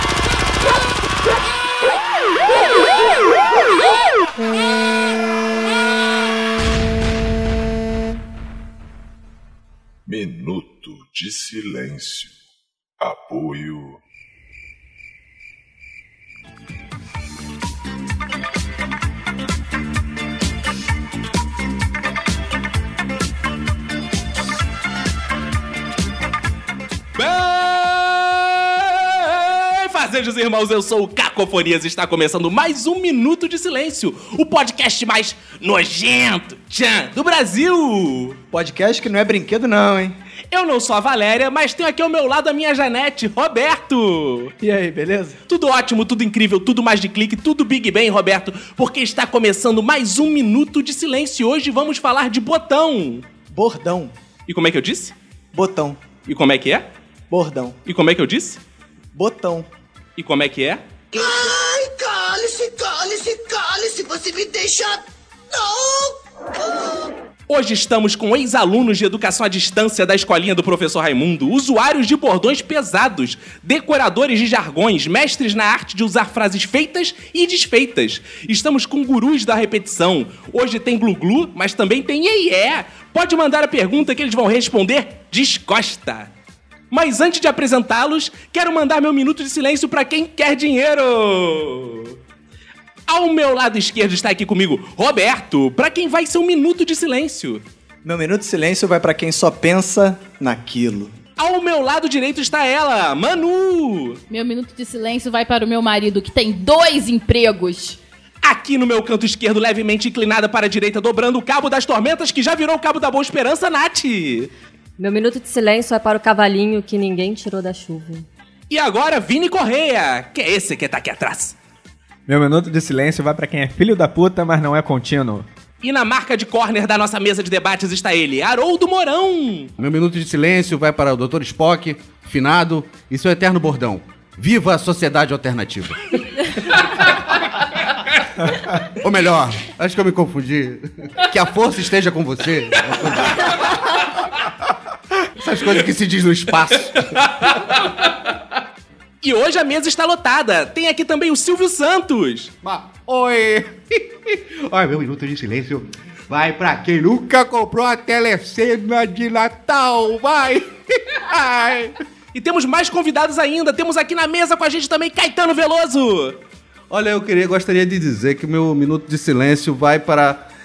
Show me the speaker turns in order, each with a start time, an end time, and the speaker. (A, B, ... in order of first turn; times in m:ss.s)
0:10.1-0:12.4 A
0:13.0-0:14.0 A
0:27.2-0:38.4 B
0:38.5-0:40.2 C
0:40.5-0:44.6 B
0:44.6-0:45.4 C
0:45.5-0:53.3 B
0:53.5-0:54.2 C
0:54.5-0:55.2 B
0:55.5-0:56.0 C
0:56.2-0:56.9 B
0:57.3-0:57.8 C
0:57.9-0:58.6 B
0:59.2-0:59.7 C
1:00.2-1:00.8 B
1:01.1-1:07.1 D
1:07.5-1:26.3 B
1:26.9-1:32.2 B
1:33.1-1:37.6 B
1:38.0-1:41.1 C
1:41.4-1:44.2 B
1:44.3-1:48.0 E
1:48.4-1:54.5 B
1:55.0-1:58.3 F
1:58.7-2:01.6 B
2:02.3-2:05.5 G
2:05.8-2:09.7 B
2:09.8-2:16.0 H
2:18.9-2:23.8 H
2:25.3-2:27.1 H
2:27.0-2:28.3 B
2:29.2-2:32.5 B
2:32.6-2:42.0 H
2:42.3-2:46.4 B
2:46.9-2:50.4 H